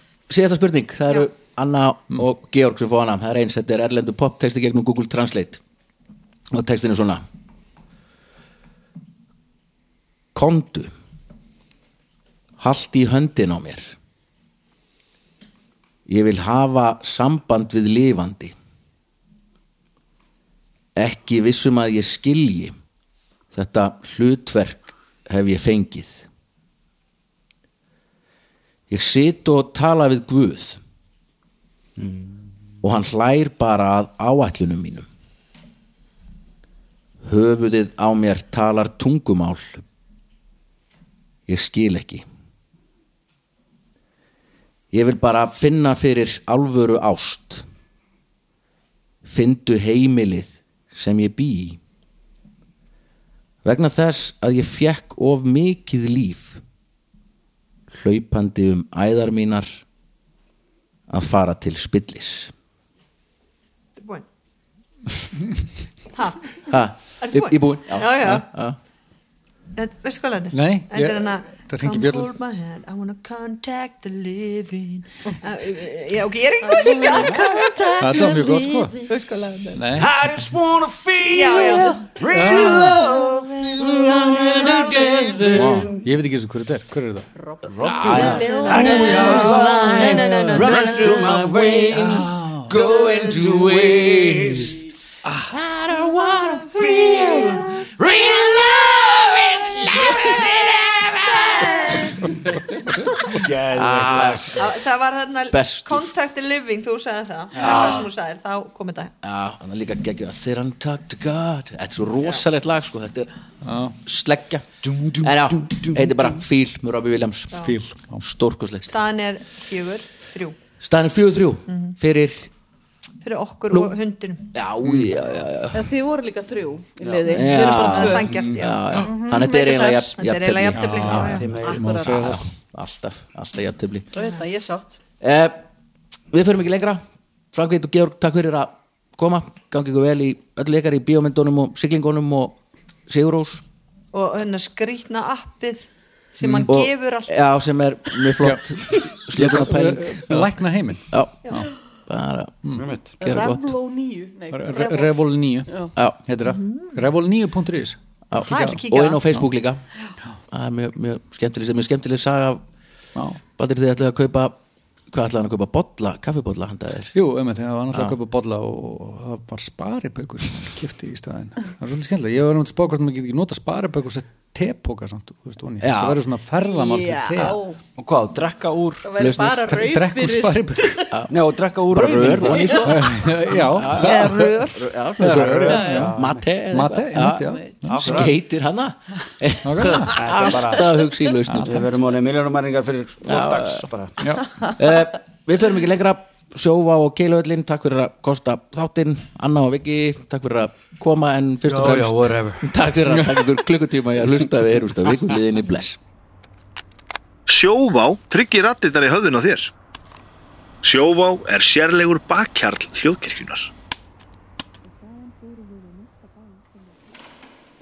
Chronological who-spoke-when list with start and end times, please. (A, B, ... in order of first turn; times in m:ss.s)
0:00.3-0:05.6 A
0:06.5-0:07.2 A
0:10.3-0:10.9 A
0:12.6-0:13.9 A
0:16.1-0:18.5 A
0:21.0-0:22.7 A
0:23.5-0:26.2 A
0:28.9-0:30.8 A
0:32.0-0:32.2 B
0:32.8-0:35.1 A
0:37.2-0:39.8 A
0:41.5-0:42.2 A
0:44.9-0:47.6 A
0:49.2-0:51.8 A
0:53.6-0:56.6 A
0:57.9-0:59.7 A
1:01.1-1:02.5 A
1:04.0-1:04.3 C
1:06.1-1:06.5 C
1:06.7-1:08.8 A
1:07.2-1:08.5 C
1:09.8-1:19.8 C
1:10.5-1:12.3 D
1:16.6-1:17.4 E
1:17.1-1:17.8 B
1:18.0-1:19.0 D
1:19.8-1:20.2 D
1:20.0-1:26.0 B
1:21.2-1:22.1 C
1:21.5-1:26.0 A
1:26.0-1:27.3 D
1:27.4-1:29.8 E
1:27.7-1:34.9 B
1:27.8-1:35.0 A
1:28.1-1:31.4 C
1:28.9-1:29.5 D
1:32.1-1:32.6 D
1:35.5-1:42.6 A
1:36.9-1:37.6 B
1:41.4-1:42.2 C
1:43.3-1:44.7 B
1:43.3-1:44.7 A
1:44.6-1:49.1 C
1:45.5-1:46.0 A
1:47.6-1:48.0 B
1:47.6-1:48.0 A
1:49.2-1:53.3 A
1:53.6-1:54.0 D
1:54.0-1:54.6 A
1:54.8-1:56.2 B
1:55.2-1:57.7 A
1:57.6-1:58.2 D
1:58.2-1:58.9 A
1:58.9-2:00.6 C
2:00.8-2:02.5 A
2:01.7-2:02.0 C
2:03.2-2:04.5 C
2:04.5-2:05.9 A
2:04.8-2:05.1 D
2:05.7-2:08.3 E
2:07.0-2:07.4 B
2:07.2-2:11.5 A
2:07.6-2:11.7 C
2:08.2-2:08.6 D
2:09.0-2:10.1 E
2:10.7-2:12.4 D
2:11.2-2:11.9 B
2:11.5-2:12.4 E
2:12.2-2:14.1 A
2:14.1-2:15.0 E
2:15.2-2:15.6 A
2:16.3-2:17.0 A
2:17.5-2:23.6 A
2:24.1-2:27.4 C
2:26.4-2:26.7 D
2:26.7-2:30.5 A
2:28.4-2:31.7 D
2:31.1-2:32.6 A
2:32.6-2:32.9 D
2:32.8-2:33.2 B
2:33.2-2:35.9 E
2:33.2-2:33.7 A
2:34.5-2:38.8 D
2:36.4-2:37.0 C
2:38.3-2:39.8 A
2:38.4-2:39.2 C
2:40.5-2:42.6 A
2:43.5-2:44.6 A
2:45.1-2:47.1 A
2:47.1-2:57.6 D
2:55.8-2:56.2 A
2:56.6-2:57.8 E
2:58.0-2:59.1 B
2:59.0-3:01.1 E
2:59.2-2:59.7 A
2:59.6-3:01.0 D
3:01.1-3:01.4 A
3:01.3-3:03.2 B
3:01.9-3:11.9 A
3:02.4-3:02.9 E
3:02.8-3:04.6 D
3:03.9-3:04.8 E
3:04.1-3:04.7 C
3:05.2-3:06.2 D
3:05.3-3:06.4 B
3:05.7-3:06.1 E
3:06.7-3:08.3 D
3:07.2-3:08.0 E
3:07.9-3:08.4 B
3:09.6-3:10.2 D
3:09.9-3:11.0 B
3:11.5-3:11.8 D
3:11.5-3:14.2 B
3:13.3-3:13.9 A
3:14.2-3:14.5 D
3:14.7-3:26.0 A
3:21.6-3:23.5 B
3:27.5-3:29.4 A
3:27.5-3:29.7 F
3:30.8-3:33.6 F
3:31.0-3:33.5 A